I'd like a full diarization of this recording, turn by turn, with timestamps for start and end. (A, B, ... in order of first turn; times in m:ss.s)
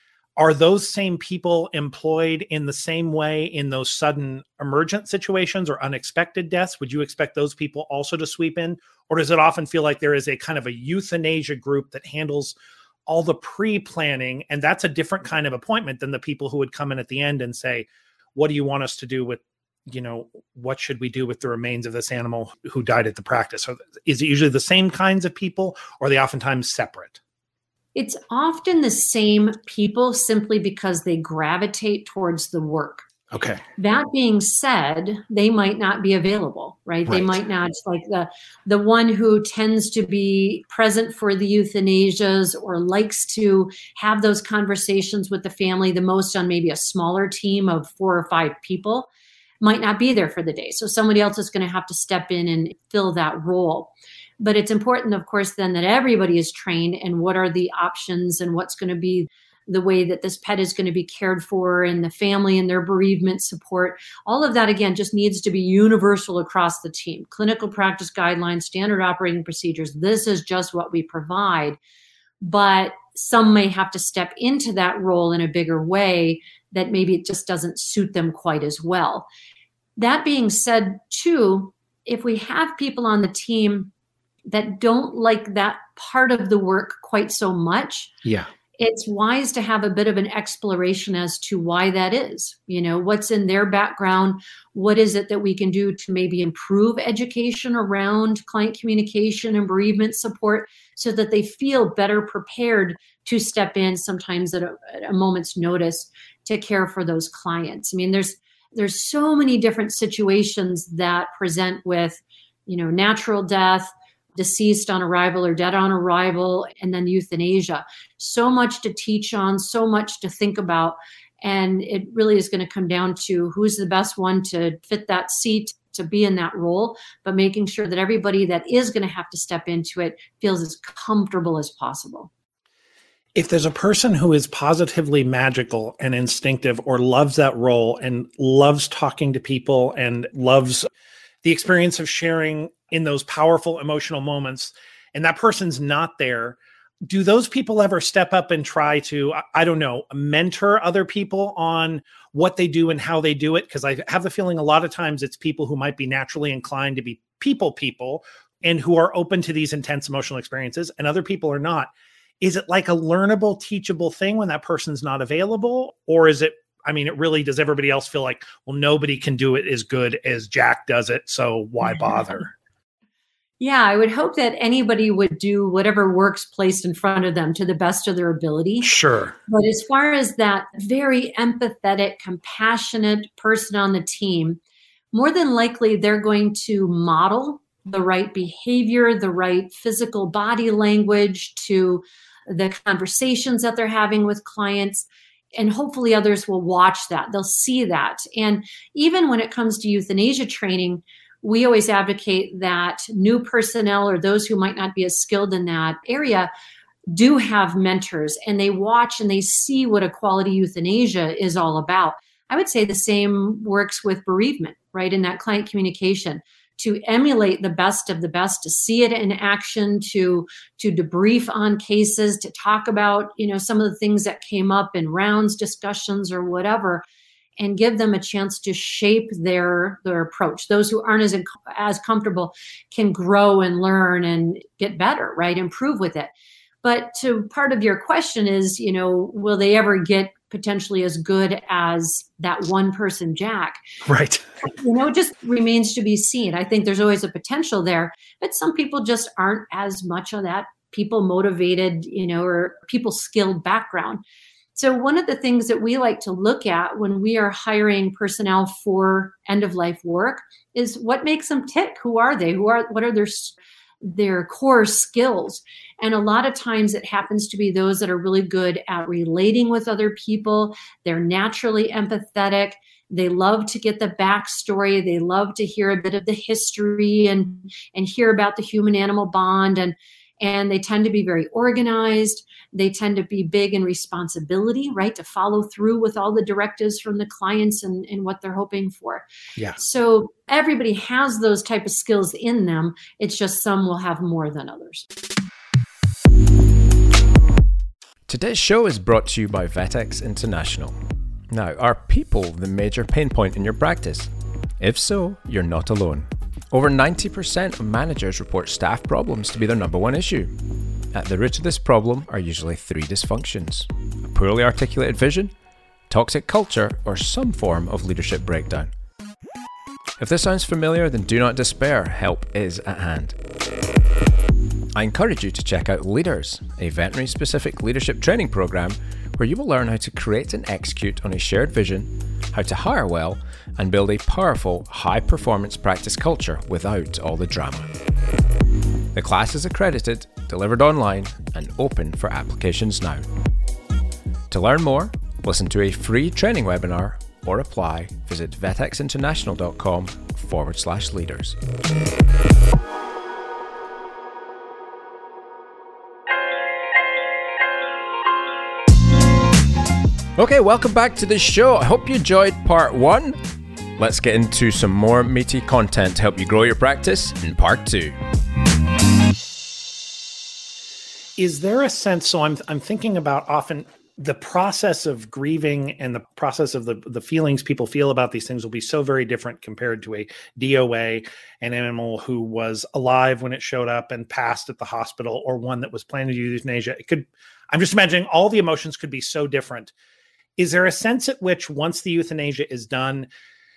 0:00.4-0:12.6 A
0:13.1-0:27.2 A
0:28.0-0:33.1 B
0:33.3-0:33.6 A
0:33.8-0:49.1 B
0:37.1-0:37.4 A
0:49.6-1:11.8 B
1:12.4-1:19.3 B
1:20.0-1:23.9 B
1:24.5-1:28.1 B
1:28.2-1:28.5 A
1:28.8-2:12.3 B
2:13.4-2:20.9 A
2:21.4-2:52.5 A
2:53.6-2:58.9 B
2:58.8-2:59.4 A
2:59.5-3:04.6 B
3:05.1-3:26.5 B
3:27.1-3:47.0 B
3:47.6-3:56.3 B
3:56.8-4:03.8 B
4:04.0-4:04.4 A
4:04.6-4:14.2 B
4:14.8-4:49.2 B
4:49.8-4:55.1 B
4:58.3-5:01.0 C
5:01.5-5:10.5 C
5:11.1-5:15.5 C
5:16.1-5:18.9 C
5:20.2-5:23.4 C
5:25.0-5:37.9 C
5:39.1-5:43.2 C
5:44.5-5:51.6 C
6:00.4-6:03.4 C
6:04.0-6:08.2 C
6:11.4-6:29.9 A
6:30.6-6:33.3 A